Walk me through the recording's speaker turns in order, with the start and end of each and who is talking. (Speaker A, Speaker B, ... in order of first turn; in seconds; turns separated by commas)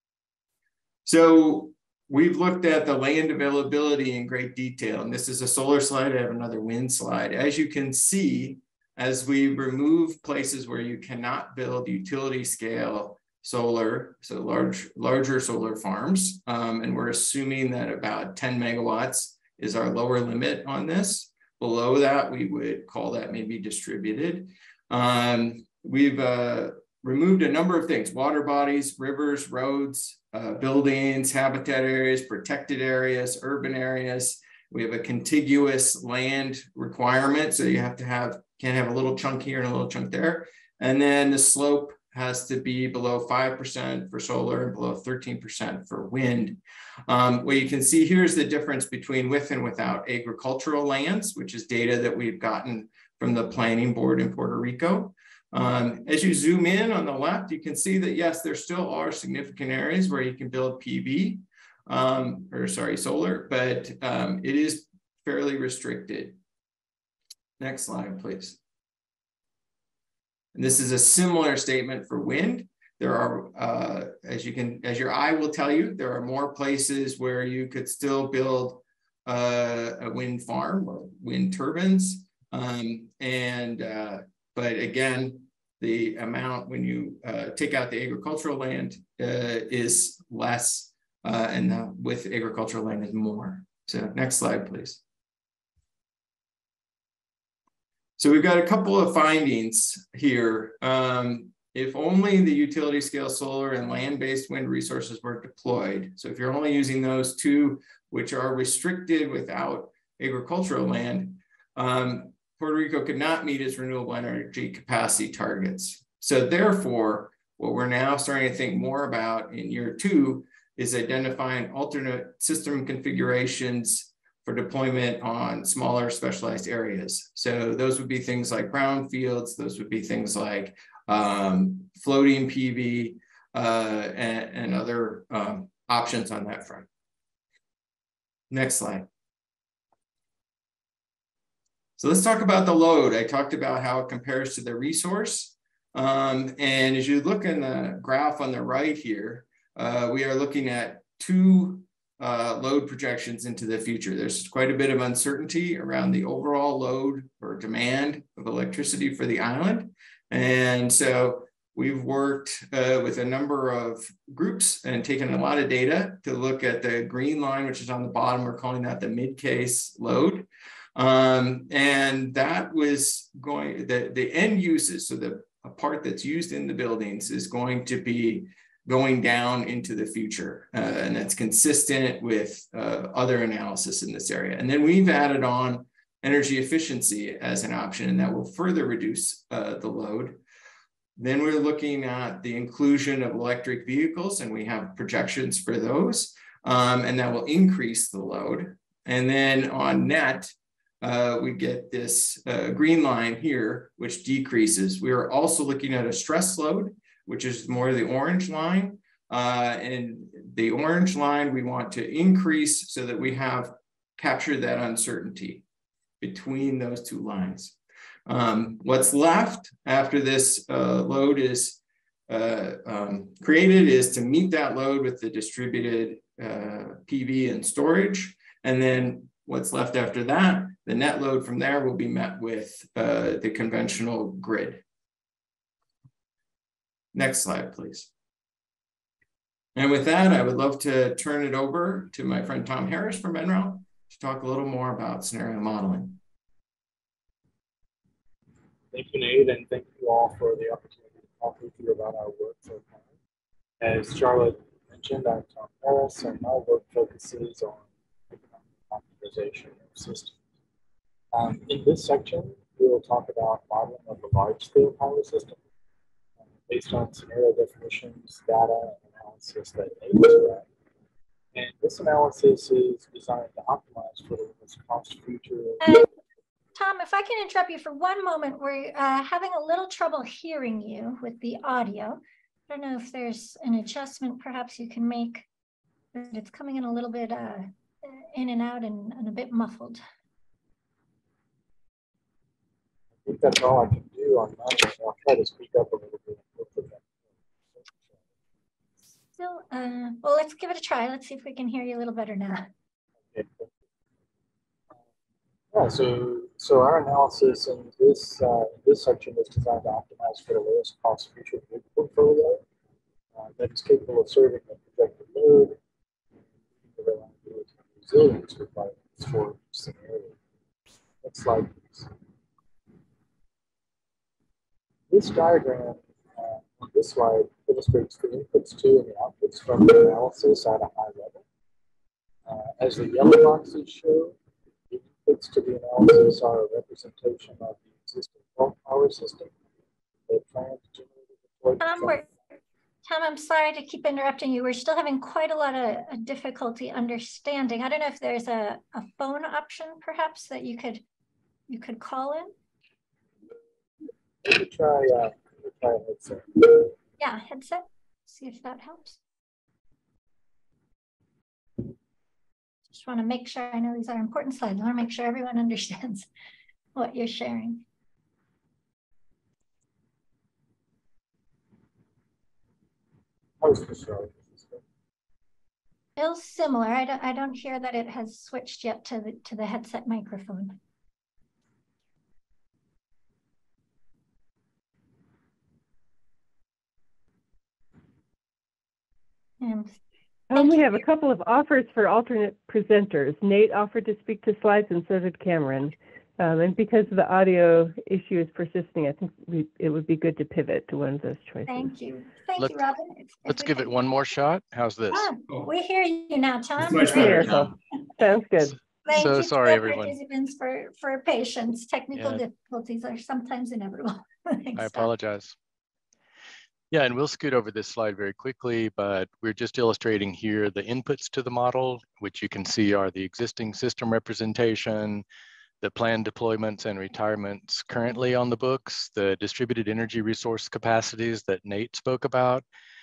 Speaker A: 1.1-66.4, Speaker A: 67.6-68.6, Speaker A: 70.5-95.0, Speaker A: 98.2-136.9, Speaker A: 138.5-139.1, Speaker A: 142.0-190.4, Speaker A: 191.2-215.6, Speaker A: 216.2-234.8, Speaker A: 237.1-238.1, Speaker A: 239.8-246.2, Speaker B: 248.9-253.0, Speaker B: 253.8-260.4, Speaker B: 261.3-265.6, Speaker B: 266.6-270.6, Speaker B: 271.5-275.8, Speaker C: 275.8-276.1, Speaker C: 276.8-285.5, Speaker C: 286.1-290.0, Speaker B: 293.2-297.1, Speaker C: 299.4-302.7, Speaker B: 303.3-303.7, Speaker B: 305.7-312.6, Speaker B: 313.4-315.8, Speaker B: 316.9-320.4, Speaker B: 321.2-322.1, Speaker B: 325.1-331.4, Speaker B: 332.5-334.4, Speaker B: 334.9-339.5, Speaker B: 340.3-342.2, Speaker C: 341.8-342.3, Speaker C: 343.1-351.0, Speaker C: 351.7-352.5, Speaker B: 354.4-356.9, Speaker C: 357.2-359.2, Speaker C: 362.9-366.3, Speaker C: 366.9-367.8, Speaker B: 373.6-374.8, Speaker C: 376.2-380.8, Speaker C: 389.6-390.0, Speaker D: 390.5-401.9, Speaker C: 390.5-391.0, Speaker C: 401.7-403.9, Speaker E: 403.5-405.3, Speaker C: 405.1-407.6, Speaker A: 406.8-407.8, Speaker D: 407.1-408.8, Speaker C: 409.1-415.1, Speaker E: 409.1-410.1, Speaker E: 412.1-412.4, Speaker E: 414.8-415.6, Speaker E: 416.9-425.2, Speaker E: 425.8-432.6